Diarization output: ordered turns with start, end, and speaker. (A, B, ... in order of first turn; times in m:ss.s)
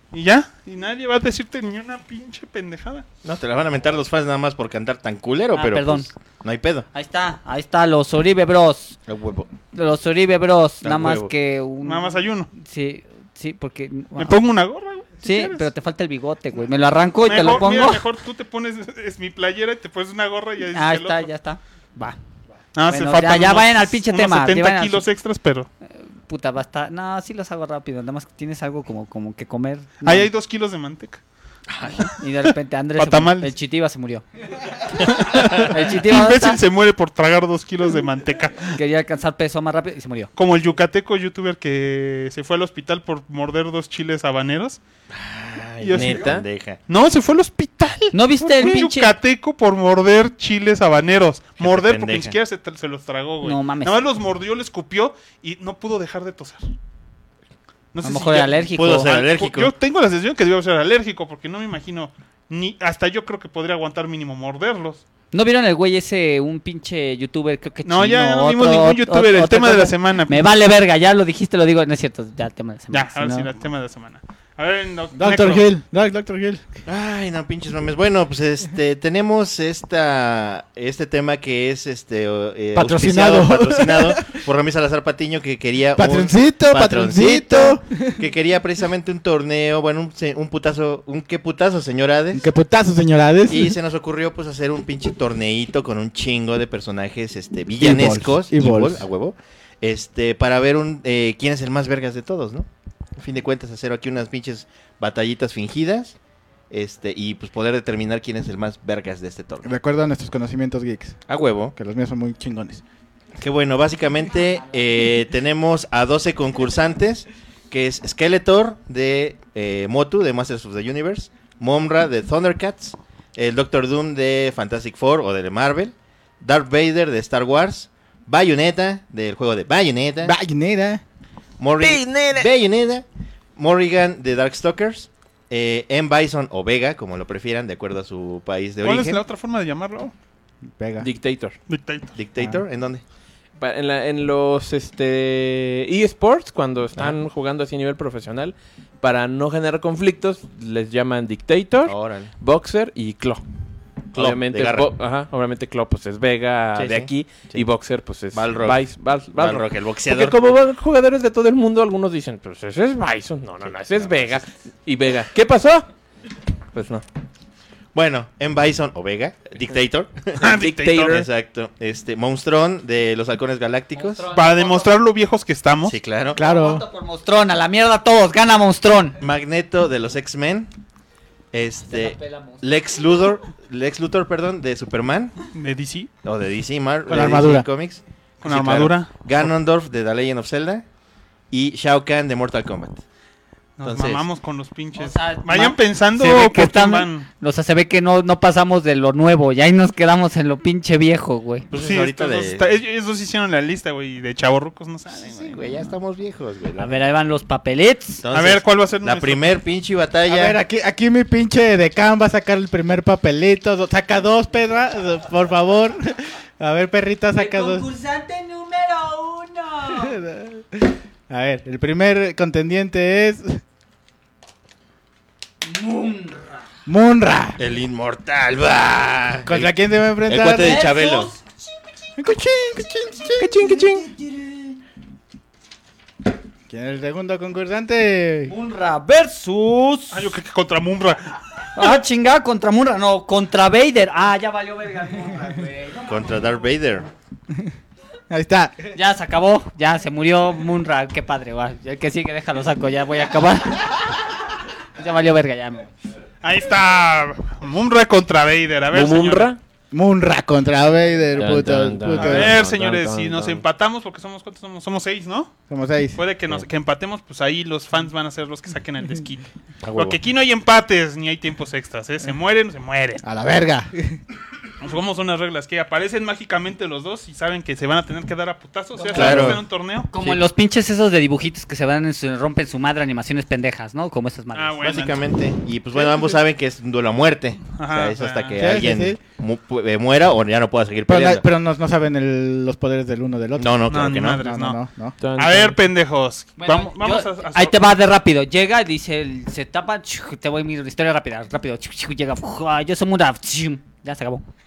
0:00.1-0:03.0 A
0:03.2-0:06.9 B
0:05.5-0:06.1 C
0:06.9-0:09.0 C
0:09.1-0:09.5 B
0:09.7-0:14.4 C
0:10.8-0:11.3 B
0:11.8-0:12.5 A
0:14.2-0:15.7 A
0:15.2-0:18.0 C
0:17.2-0:21.3 A
0:20.7-0:22.2 C
0:22.8-0:25.7 A
0:22.9-0:25.0 C
0:26.3-0:30.3 C
0:30.0-0:31.2 A
0:32.0-0:33.5 A
0:32.2-0:34.2 C
0:35.0-0:38.8 A
0:35.6-0:36.6 C
0:38.8-0:40.3 C
0:40.4-0:44.8 A
0:45.1-0:46.8 B
0:45.8-0:46.3 A
0:45.9-0:46.4 D
0:46.9-0:56.6 A
0:48.1-0:49.2 C
0:51.6-0:52.4 B
0:53.4-0:54.0 C
0:57.9-1:05.0 A
0:58.0-0:59.1 C
0:58.7-0:59.7 B
1:05.3-1:13.5 C
1:07.8-1:10.4 A
1:12.9-1:15.6 A
1:15.2-1:16.6 E
1:16.9-1:32.5 B
1:22.7-1:24.4 E
1:26.0-1:28.2 E
1:32.3-1:33.8 E
1:33.5-1:46.2 B
1:37.8-1:39.1 E
1:46.7-1:49.7 B
1:49.6-1:51.2 E
1:51.3-1:51.7 B
1:51.8-1:52.8 E
1:53.4-2:10.4 B
2:10.2-2:11.0 E
2:11.6-2:13.0 B
2:11.8-2:12.5 D
2:13.6-2:19.2 B
2:18.8-2:20.1 A
2:20.7-2:21.1 E
2:21.0-2:21.6 D
2:21.7-2:22.1 A
2:22.2-2:23.0 B
2:23.6-2:33.4 D
2:31.8-2:32.3 B
2:34.1-2:45.9 D
2:34.1-2:34.9 B
2:36.8-2:37.7 B
2:38.3-2:40.5 B
2:43.7-2:44.4 B
2:46.7-2:47.0 D
2:47.9-2:54.2 B
2:50.4-2:51.3 A
2:50.5-2:51.3 D
2:54.0-2:54.9 C
2:54.3-2:56.0 A
2:55.8-2:56.4 B
2:56.4-2:56.8 E
2:56.4-2:59.2 C
2:59.2-3:00.7 B
3:01.5-3:05.4 B
3:01.9-3:02.7 C
3:05.5-3:06.1 A
3:06.2-3:10.8 B
3:07.1-3:07.7 E
3:08.4-3:09.5 A
3:11.5-3:13.0 B
3:13.8-3:17.3 A
3:13.8-3:14.2 B
3:15.0-3:21.7 C
3:21.7-3:22.7 B
3:21.8-3:25.9 A
3:25.1-3:27.0 B
3:26.8-3:28.2 C
3:28.2-3:30.6 B
3:28.3-3:29.6 A
3:30.3-3:37.9 E
3:37.4-3:40.2 C
3:39.9-3:43.6 E
3:45.6-3:46.5 C
3:46.9-3:47.6 E
3:47.6-3:51.3 B
3:49.5-3:50.9 E
3:50.6-3:51.4 C
3:52.2-3:53.6 E
3:53.4-3:54.1 D
3:53.8-3:54.7 C
3:56.7-3:58.5 E
3:58.5-4:00.3 C
4:00.1-4:01.4 A
4:01.8-4:06.4 C
4:06.0-4:07.1 B
4:08.3-4:08.9 E
4:08.9-4:14.0 C
4:15.0-4:15.9 C
4:16.4-4:19.5 A
4:18.9-4:19.6 D
4:19.9-4:22.6 E
4:21.4-4:23.6 D
4:22.1-4:25.5 A
4:25.7-4:26.2 E
4:26.2-4:33.2 A
4:29.8-4:30.2 B
4:33.2-4:34.2 E
4:34.8-4:40.1 A
4:39.0-4:39.6 C
4:39.1-4:39.6 B
4:40.1-4:44.8 C
4:44.5-4:45.3 A
4:44.8-4:51.4 B
4:46.0-4:46.3 A
4:47.8-4:48.6 A
4:48.6-4:49.2 E
4:51.1-4:55.2 E
4:53.6-4:54.4 B
4:53.9-4:54.8 A
4:55.2-4:55.8 D
4:55.4-4:57.9 A
4:56.6-5:04.4 C